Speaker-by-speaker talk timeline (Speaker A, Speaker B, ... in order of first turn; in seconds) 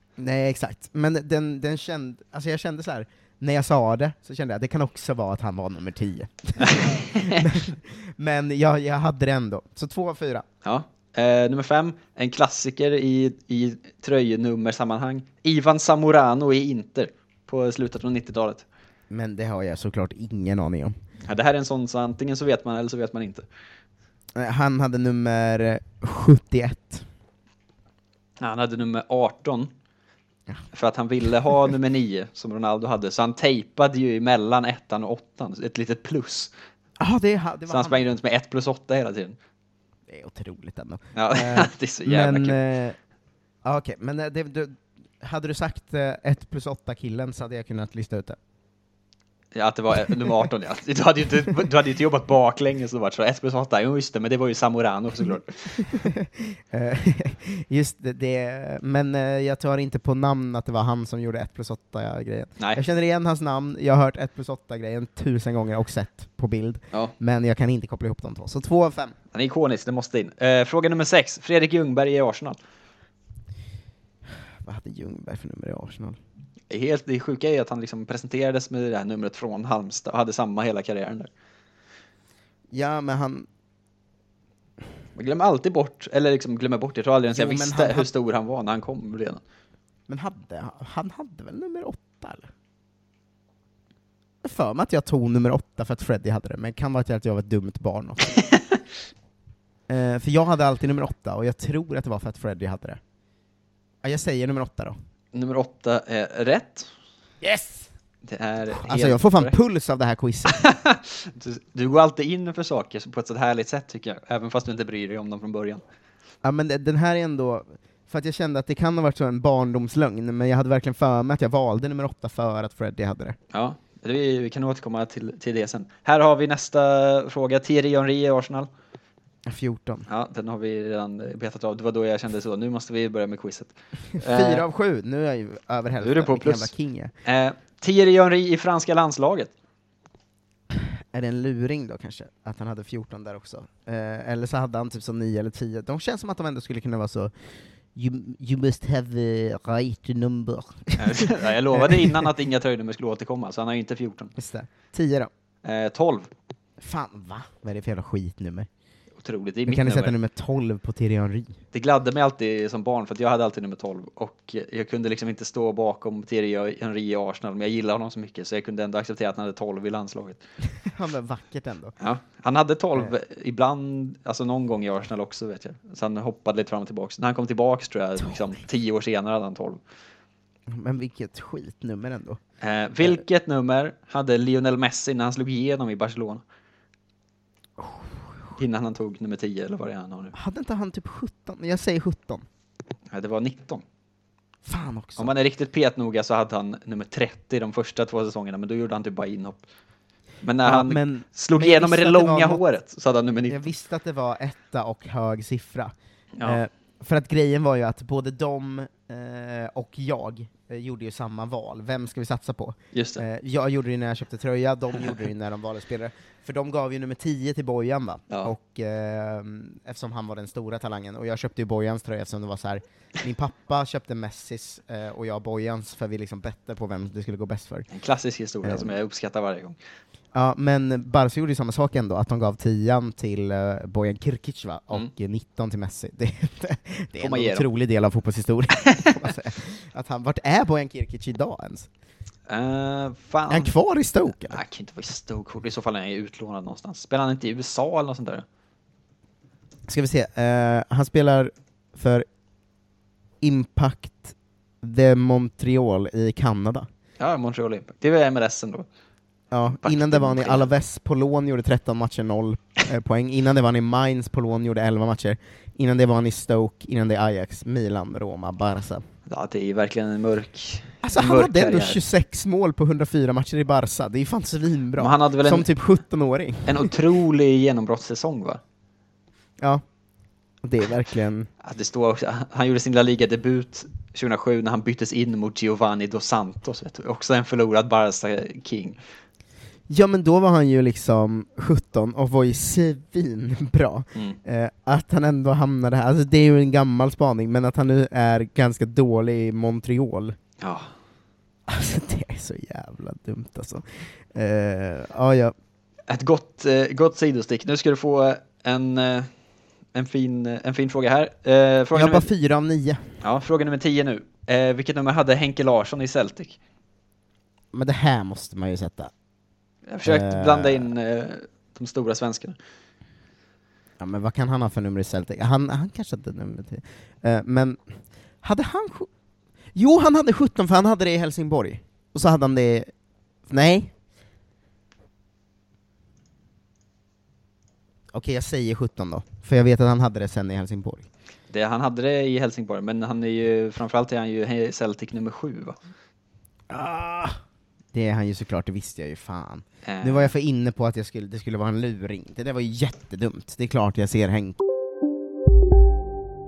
Speaker A: 0.2-10.4, 19.1-21.0, 24.4-27.1, 37.0-38.1, 40.1-43.0, 43.6-48.4, 55.8-69.2, 74.6-76.2, 82.7-83.5, 87.3-88.1, 90.1-92.5, 94.4-98.3, 99.9-103.0, 104.0-105.0, 107.4-107.9, 108.8-110.6, 116.4-123.4, 129.5-130.1, 134.1-137.1, 140.7-147.3, 147.9-152.3, 154.4-155.3, 156.8-158.7, 159.7-161.6, 170.8-171.9, 180.7-182.4, 187.8-188.1, 190.3-192.4, 194.7-195.3, 200.6-202.6, 203.5-227.9, 228.6-228.9, 230.3-241.9, 243.5-244.6, 249.9-252.3, 253.4-256.9, 259.5-269.1, 271.0-276.9, 280.6-281.5, 289.9-300.4, 301.7-305.5, 311.9-313.1, 317.7-319.1, 320.0-320.9, 324.0-327.9, 328.4-329.1, 329.7-332.9, 333.5-333.9, 338.1-341.1, 346.7-347.4, 347.9-354.6
Speaker B: 6.6-7.5, 10.6-18.6, 21.2-23.5, 28.4-29.7, 30.7-36.5, 37.7-39.4, 41.1-42.6, 49.5-55.9, 69.3-72.6, 76.7-81.3, 85.2-89.4, 105.3-106.9, 108.2-109.6, 110.6-115.8, 123.5-128.7, 130.1-134.7, 136.0-136.7, 137.2-139.5, 151.0-154.3, 155.6-156.3, 159.2-160.2, 161.7-170.4, 172.0-179.8, 182.6-186.4, 188.6-190.3, 193.1-193.8, 195.2-199.7, 200.4-203.7, 212.9-213.2, 227.9-229.8, 237.2-237.7, 242.5-243.7, 244.4-248.4, 257.2-258.9, 259.8-260.7, 269.3-272.0, 275.0-275.7, 276.7-278.6, 281.6-289.0, 300.6-300.9, 306.1-309.3, 309.9-312.3, 313.2-316.6, 319.9-322.6, 341.5-345.8, 349.9-350.3